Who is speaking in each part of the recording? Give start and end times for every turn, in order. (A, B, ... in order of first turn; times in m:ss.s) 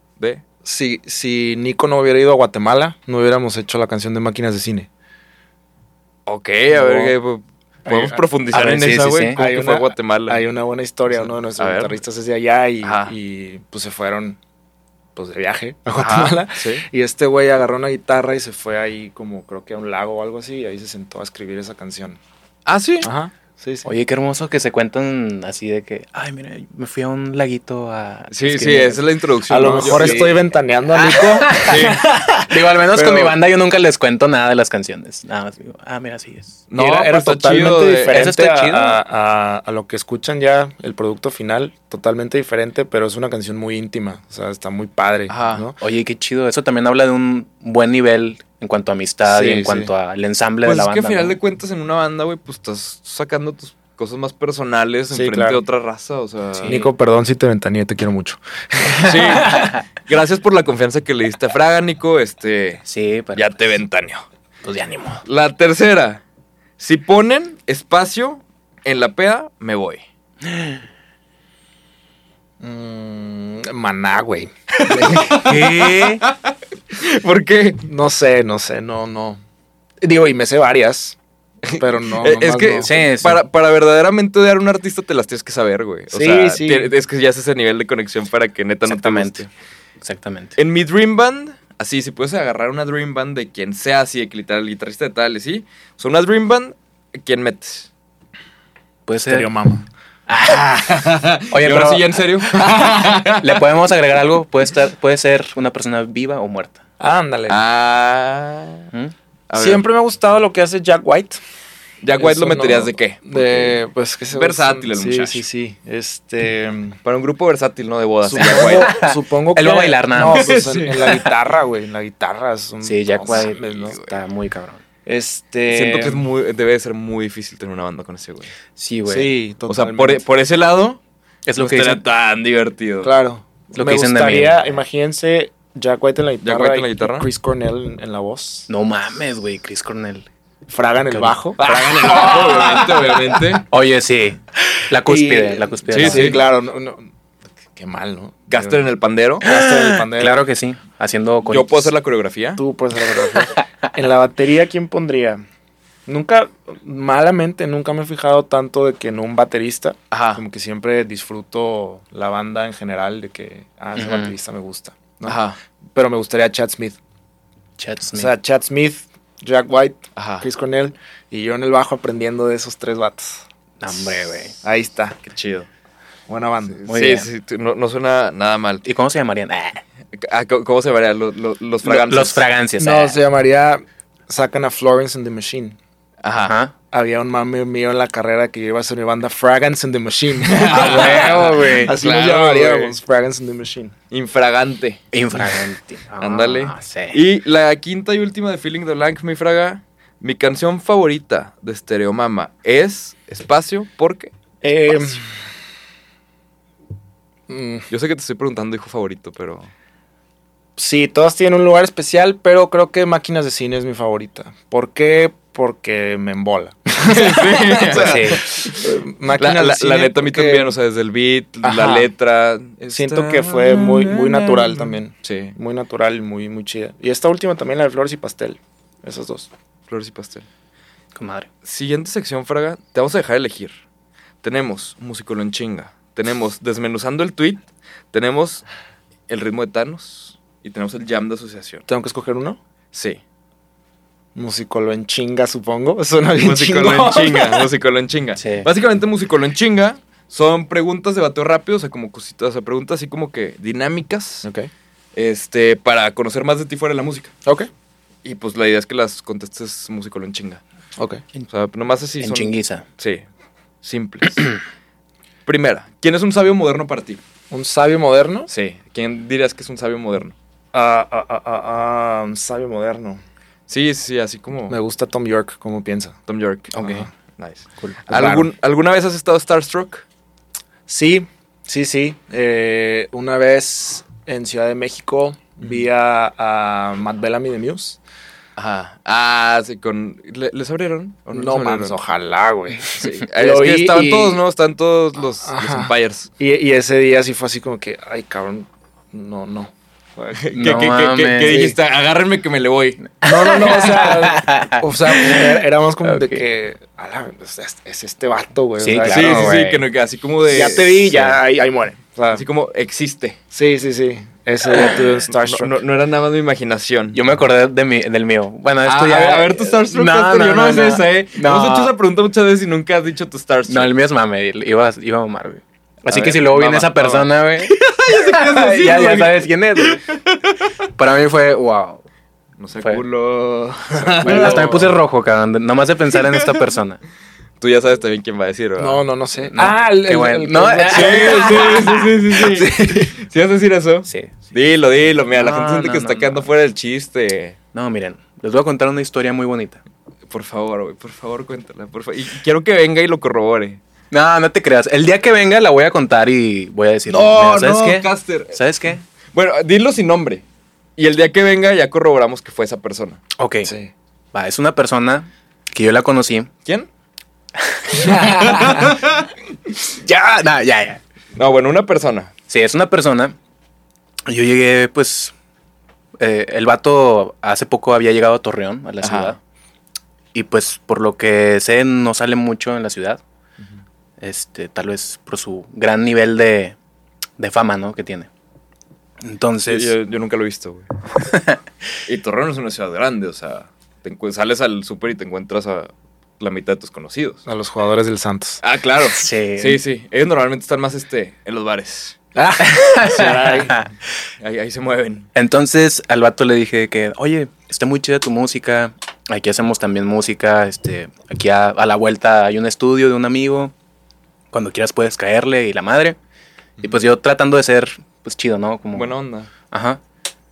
0:00.6-0:04.9 A
0:06.2-0:10.4 B
0:06.7-0:07.1 A
0:07.8-0:08.2 A
0:08.5-0:09.4 C
0:09.3-0:14.4 A
0:11.1-0:12.0 B
0:12.8-0:13.1 B
0:15.2-0:22.2 A
0:16.0-0:16.8 B
0:22.6-0:23.1 B
0:23.0-0:23.9 A
0:23.8-0:29.0 C
0:28.3-0:30.4 B
0:29.5-0:33.4 A
0:29.8-0:30.4 C
0:30.9-0:32.0 B
0:31.5-0:31.8 C
0:32.5-0:36.6 C
0:36.7-0:38.2 B
0:36.8-0:45.8 A
0:38.1-0:39.0 C
0:45.3-0:45.7 B
0:45.8-0:51.4 C
0:49.2-0:49.9 A
0:50.6-0:56.9 B
0:55.1-0:55.6 A
0:56.6-0:59.5 A
0:59.0-1:02.8 B
0:59.4-0:59.7 C
1:02.8-1:03.6 C
1:03.3-1:04.2 B
1:04.6-1:05.2 C
1:05.2-1:06.2 B
1:06.8-1:10.0 B
1:12.6-1:15.5 A
1:14.8-1:17.8 B
1:15.3-1:16.2 C
1:17.8-1:19.4 A
1:20.0-1:21.2 A
1:21.6-1:29.5 B
1:21.8-1:22.9 A
1:22.8-1:23.4 C
1:26.1-1:26.9 A
1:28.8-1:29.4 C
1:30.0-1:30.5 C
1:30.6-1:37.9 B
1:39.0-1:39.5 C
1:39.2-1:39.9 A
1:40.3-1:40.8 C
1:40.4-1:43.6 B
1:41.5-1:42.2 C
1:43.4-1:46.8 C
1:47.0-1:47.6 A
1:47.5-1:48.9 B
1:49.5-1:49.8 B
1:49.5-1:51.4 A
1:52.0-1:53.8 B
1:52.2-1:57.0 A
1:54.3-1:55.4 B
1:57.0-1:58.9 B
1:58.2-2:04.0 A
1:58.4-2:00.5 C
2:00.2-2:01.2 B
2:02.8-2:04.8 C
2:03.3-2:04.2 B
2:05.0-2:06.2 A
2:05.7-2:08.5 B
2:08.8-2:09.3 C
2:09.0-2:10.2 A
2:09.7-2:11.0 B
2:11.4-2:12.0 C
2:11.6-2:13.1 B
2:13.0-2:18.7 A
2:13.7-2:14.8 C
2:16.4-2:17.3 B
2:18.7-2:20.3 C
2:20.7-2:22.8 A
2:21.1-2:26.4 C
2:21.6-2:23.6 B
2:25.0-2:27.1 A
2:25.9-2:26.4 B
2:27.7-2:28.8 A
2:28.5-2:29.5 B
2:29.4-2:30.4 A
2:29.4-2:31.9 C
2:31.5-2:32.6 B
2:32.6-2:35.4 A
2:33.2-2:33.6 C
2:36.1-2:45.4 A
2:40.1-2:40.4 B
2:44.0-2:44.3 C
2:45.2-2:45.6 B
2:45.9-2:47.0 A
2:47.8-2:48.3 C
2:48.1-2:53.4 A
2:50.2-2:50.4 B
2:53.8-2:54.6 C
2:54.6-2:55.2 A
2:55.2-2:55.7 B
2:56.3-2:56.8 A
2:56.8-2:58.8 B
2:56.9-2:57.3 C
2:58.8-2:59.8 C
3:00.1-3:02.4 B
3:01.8-3:03.2 C
3:02.8-3:05.8 A
3:06.2-3:06.5 B
3:06.4-3:06.7 C
3:06.9-3:13.9 A
3:10.4-3:13.0 B
3:10.7-3:11.9 C
3:14.1-3:15.0 B
3:15.1-3:17.2 C
3:16.2-3:24.3 B
3:24.6-3:25.2 A
3:27.5-3:27.9 A
3:27.9-3:29.7 B
3:30.8-3:40.7 A
3:37.1-3:38.8 B
3:37.9-3:38.4 C
3:39.4-3:45.5 B
3:41.6-3:42.1 A
3:42.9-3:49.5 A
3:49.9-3:50.4 B
3:51.1-3:51.5 C
3:51.6-3:53.7 B
3:54.4-3:58.6 B
3:59.3-4:01.8 B
4:01.9-4:02.6 A
4:02.9-4:03.2 B
4:04.3-4:07.7 A
4:06.4-4:14.4 B
4:08.4-4:08.7 C
4:14.4-4:14.7 A
4:15.1-4:17.3 B
4:18.2-4:20.6 B
4:21.5-4:23.2 B
4:22.2-4:22.8 C
4:23.8-4:24.5 B
4:25.4-4:27.2 B
4:27.5-4:28.5 A
4:28.5-4:30.3 B
4:30.7-4:33.2 A
4:33.7-4:34.8 B
4:34.7-4:36.2 A
4:36.3-4:40.0 B
4:36.8-4:37.0 C
4:36.8-4:37.1 A
4:37.8-4:38.5 A
4:40.9-4:48.0 A
4:48.6-4:52.0 B
4:51.3-4:54.4 A
4:52.9-4:56.3 B
4:55.4-5:00.5 A
5:00.4-5:03.0 B
5:00.5-5:01.6 C
5:01.4-5:01.8 A
5:03.2-5:09.6 A
5:03.2-5:06.4 C
5:08.8-5:09.8 C
5:09.0-5:11.4 B
5:10.4-5:12.4 A
5:12.3-5:13.4 B
5:13.5-5:15.7 A
5:14.7-5:17.2 B
5:17.1-5:21.9 C
5:18.8-5:23.9 B
5:23.7-5:30.0 C
5:26.1-5:30.4 B
5:31.0-5:32.0 C
5:32.6-5:34.9 B
5:33.8-5:34.9 A
5:34.2-5:37.0 C
5:36.1-5:36.6 B
5:37.6-5:39.0 B
5:38.8-5:43.1 A
5:39.5-5:42.0 C
5:40.8-5:47.6 B
5:44.0-5:44.3 C
5:45.3-5:46.4 C
5:47.7-5:49.8 C
5:50.3-5:53.8 B
5:54.1-5:59.0 C
5:57.1-5:58.6 B
5:59.3-6:00.4 B
6:01.0-6:03.2 B
6:03.4-6:03.7 C
6:03.6-6:03.9 A
6:04.3-6:06.5 C
6:07.7-6:08.9 C
6:07.9-6:08.9 A
6:08.1-6:09.3 B
6:09.8-6:11.0 C
6:11.4-6:12.3 B
6:12.5-6:13.4 C
6:14.3-6:15.3 C
6:16.2-6:19.4 C
6:19.0-6:19.4 B
6:20.3-6:23.2 C
6:24.2-6:26.7 C
6:27.4-6:28.3 C
6:29.2-6:29.9 C
6:29.7-6:30.9 B
6:31.2-6:31.6 C
6:32.1-6:37.4 B
6:37.4-6:38.6 A
6:38.6-6:42.2 B
6:39.1-6:39.8 C
6:42.4-6:43.8 A
6:42.6-6:43.9 C
6:43.2-6:43.8 B
6:44.4-6:45.3 B
6:45.3-6:53.7 C
6:54.5-6:56.2 C
6:56.8-6:59.1 C
6:58.9-6:59.5 B
6:59.7-7:00.0 C